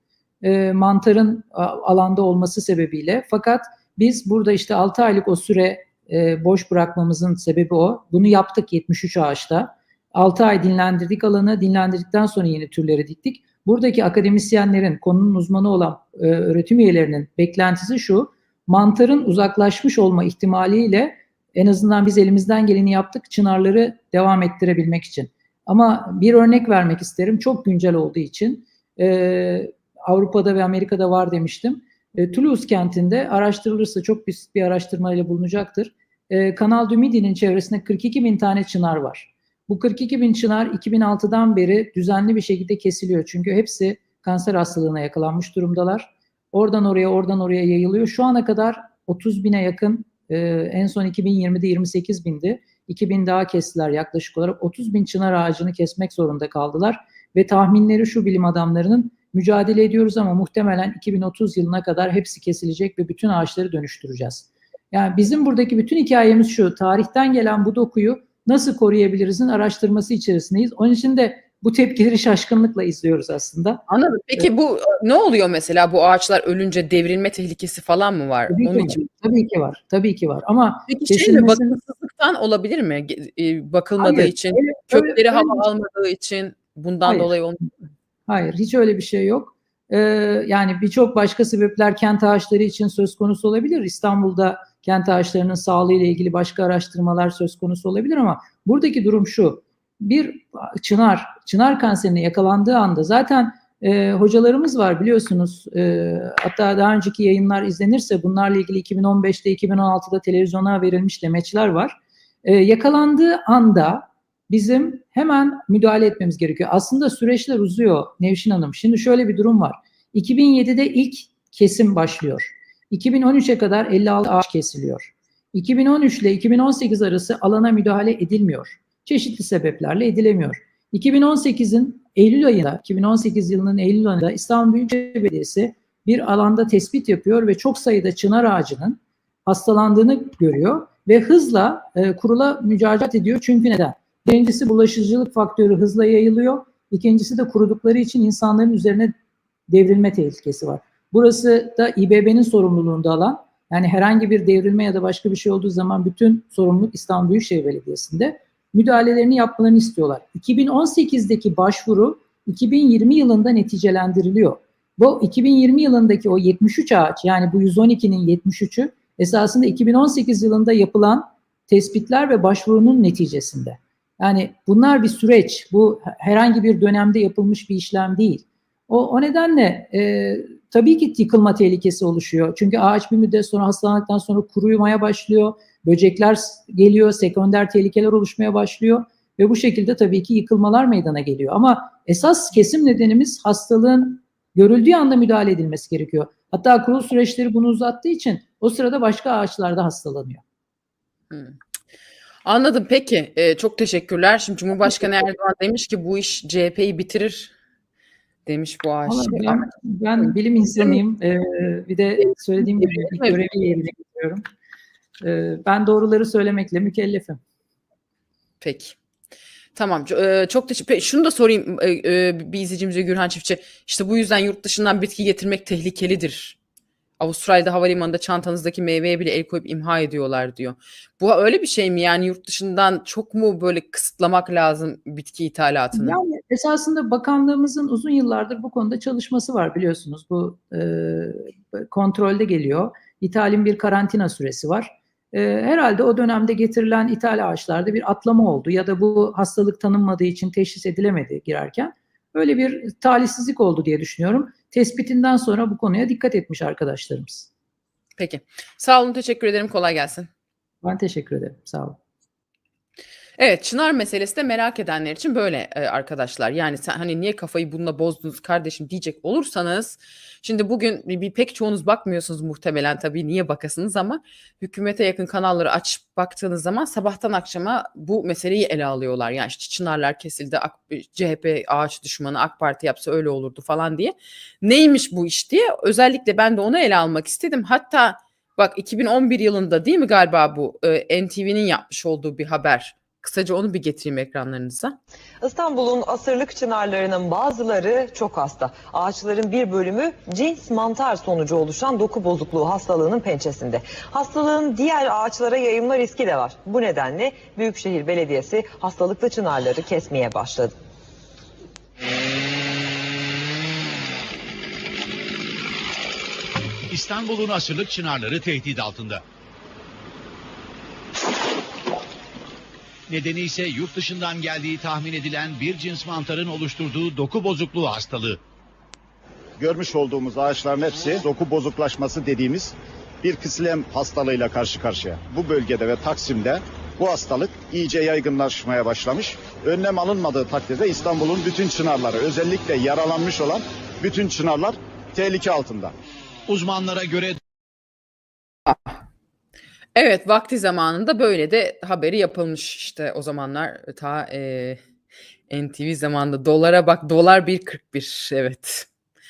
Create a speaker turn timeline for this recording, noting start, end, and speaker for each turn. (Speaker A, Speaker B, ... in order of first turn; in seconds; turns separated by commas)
Speaker A: 0.4-73.8, Speaker B: 73.9-79.0, Speaker A: 78.5-81.8, Speaker B: 80.9-87.7, Speaker A: 84.0-85.7, Speaker A: 87.0-87.3, Speaker A: 88.3-149.1, Speaker A: 149.7-200.4, Speaker B: 201.3-201.6, Speaker B: 202.4-207.5, Speaker B: 208.5-209.7, Speaker A: 209.1-214.4, Speaker B: 212.6-213.3, Speaker A: 215.2-217.4, Speaker B: 218.6-219.0, Speaker B: 219.8-226.6, Speaker B: 227.2-236.2, Speaker A: 235.9-257.5, Speaker B: 258.2-260.3, Speaker A: 260.8-262.0, Speaker B: 263.4-295.0, Speaker C: 295.4-310.8, Speaker D: 316.9-319.2, Speaker D: 323.1-328.4, Speaker E: 329.6-345.9, Speaker D: 346.5-347.4, Speaker B: 349.9-354.8, Speaker B: 355.5-358.9